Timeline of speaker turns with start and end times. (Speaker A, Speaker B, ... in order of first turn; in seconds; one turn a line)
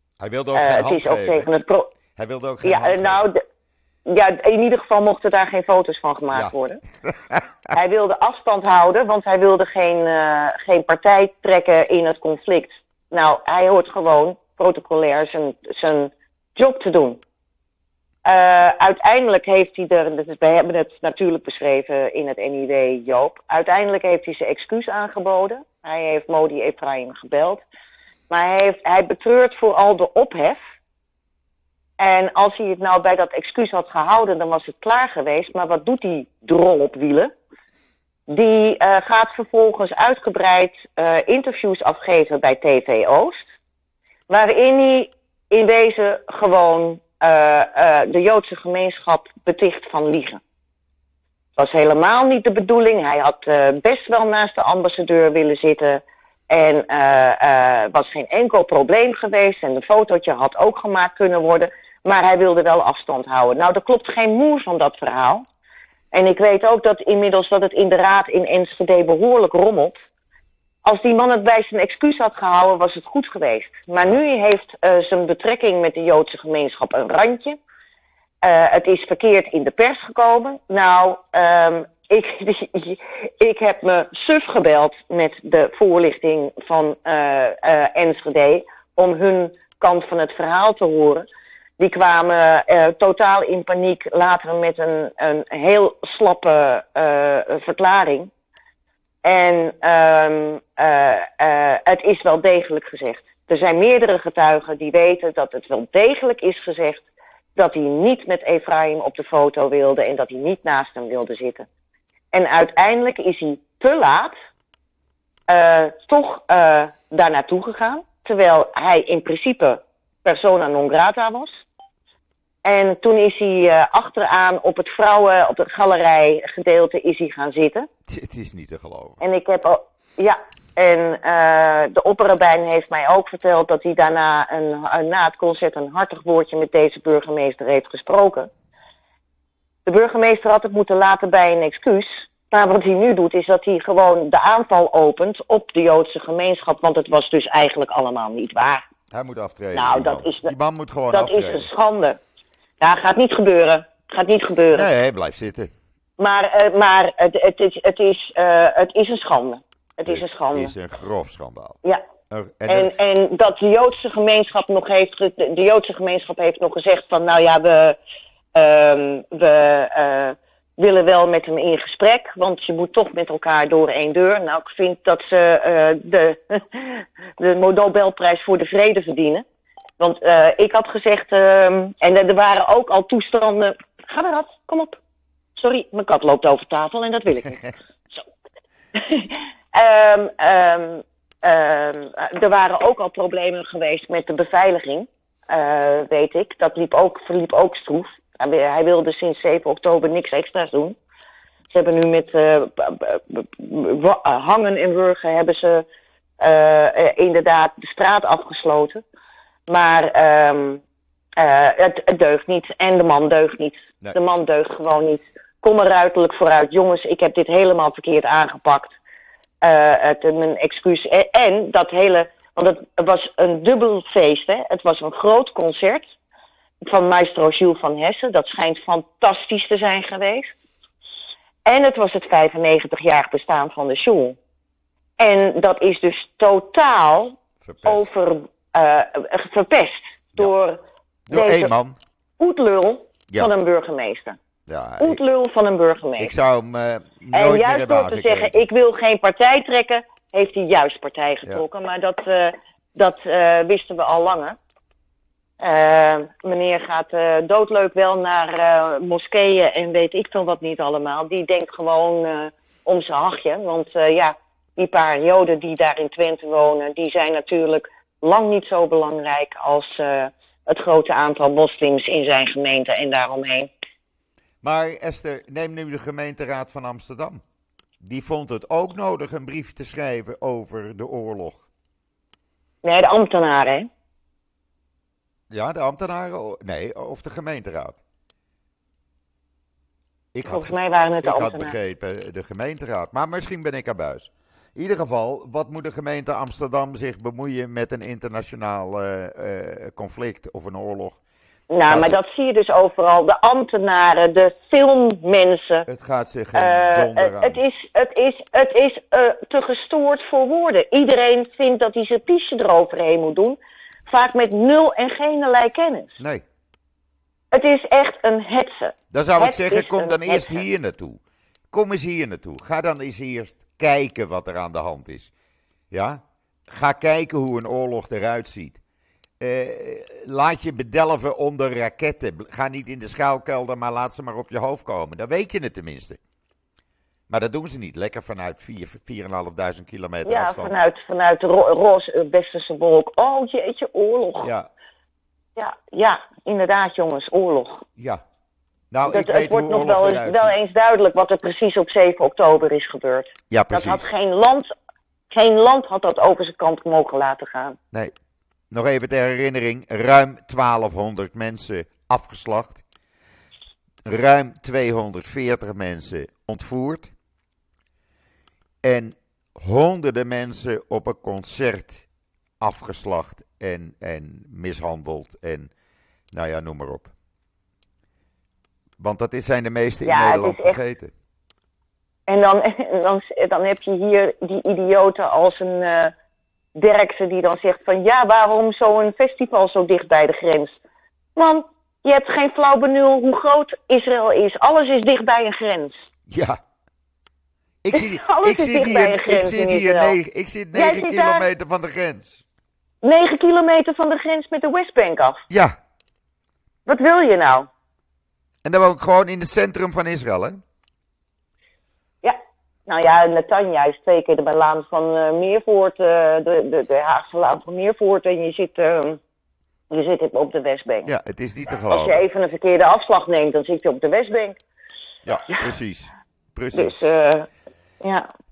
Speaker A: 0.2-1.5
Speaker B: 0.5-1.9
Speaker A: 2.1-3.2
Speaker B: 2.6-3.4
Speaker B: 4.0-6.8
Speaker A: 6.3-7.4
Speaker B: 7.7-17.2
Speaker B: 18.2-27.6
Speaker B: 28.3-30.6
Speaker B: 32.0-37.3
Speaker B: 38.3-43.5
Speaker B: 44.3-50.4
Speaker B: 51.6-65.4
Speaker B: 66.1-70.0
Speaker B: 70.8-77.6
Speaker B: 78.4-91.2
Speaker B: 91.8-98.3
Speaker B: 99.2-111.7
Speaker B: 112.3-114.3
Speaker B: 115.5-121.7
Speaker B: 122.6-127.9
Speaker A: 128.1-129.2
Speaker B: 129.2-138.5
Speaker B: 139.8-148.8
Speaker A: 149.1-151.7
Speaker B: 149.7-150.5
Speaker B: 151.1-152.2
Speaker B: 152.8-154.9
Speaker A: 154.7-155.7
Speaker B: 156.2-160.7
Speaker A: 160.1-161.8
Speaker A: 162.3-162.9
Speaker B: 162.7-168.0
Speaker B: 168.5-179.4
Speaker B: 180.0-185.0
Speaker B: 185.6-188.2
Speaker B: 188.9-201.0
Speaker B: 201.7-205.8
Speaker B: 206.4-209.0
Speaker B: 209.7-210.8
Speaker B: 211.4-219.0
Speaker B: 219.6-226.2
Speaker B: 226.8-230.5
Speaker B: 231.6-234.4
Speaker B: 235.2-241.7
Speaker A: 237.6-238.0
Speaker A: 241.3-241.9
Speaker B: 242.4-244.4
Speaker A: 244.7-245.2
Speaker B: 245.0-246.3
Speaker A: 246.2-248.6
Speaker B: 247.3-254.6
Speaker B: 255.6-273.7
Speaker A: 274.6-277.4
Speaker A: 278.0-281.6
Speaker B: 282.8-283.9
Speaker A: 285.5-288.0
Speaker A: 290.3-301.2
Speaker B: 290.4-291.7
Speaker B: 301.7-305.9
Speaker A: 301.8-302.2
Speaker A: 305.9-307.6
Speaker B: 306.5-316.2
Speaker B: 317.5-320.6
Speaker A: 319.1-321.2
Speaker A: 321.7-325.3
Speaker A: 325.9-328.8
Speaker A: 329.4-336.2
Speaker A: 337.3-340.8
Speaker B: 340.2-344.5
Speaker A: 344.4-344.7
Speaker B: 345.6-347.9
Speaker A: 348.0-348.2
Speaker A: 348.9-350.5
Speaker B: 349.1-354.7
Speaker A: 353.5-354.1
Speaker B: 355.3-357.8
Speaker A: 358.7-362.8
Speaker A: 364.0-367.1
Speaker A: 368.8-372.1
Speaker A: 372.6-375.7
Speaker A: 376.3-377.1
Speaker A: 379.0-381.1
Speaker B: 380.0-380.8
Speaker B: 382.3-386.1
Speaker B: 386.7-390.8
Speaker B: 391.4-396.1
Speaker A: 396.3-396.6
Speaker A: 397.8-402.4
Speaker B: 397.9-400.2
Speaker B: 400.7-401.5
Speaker B: 403.0-405.4
Speaker A: 405.5-405.7
Speaker B: 406.9-407.7
Speaker A: 408.6-410.6
Speaker B: 412.2-419.2
Speaker B: 419.9-421.1
Speaker A: 421.0-422.2
Speaker B: 421.9-424.6
Speaker A: 425.2-427.0
Speaker B: 426.7-427.5
Speaker B: 428.0-428.3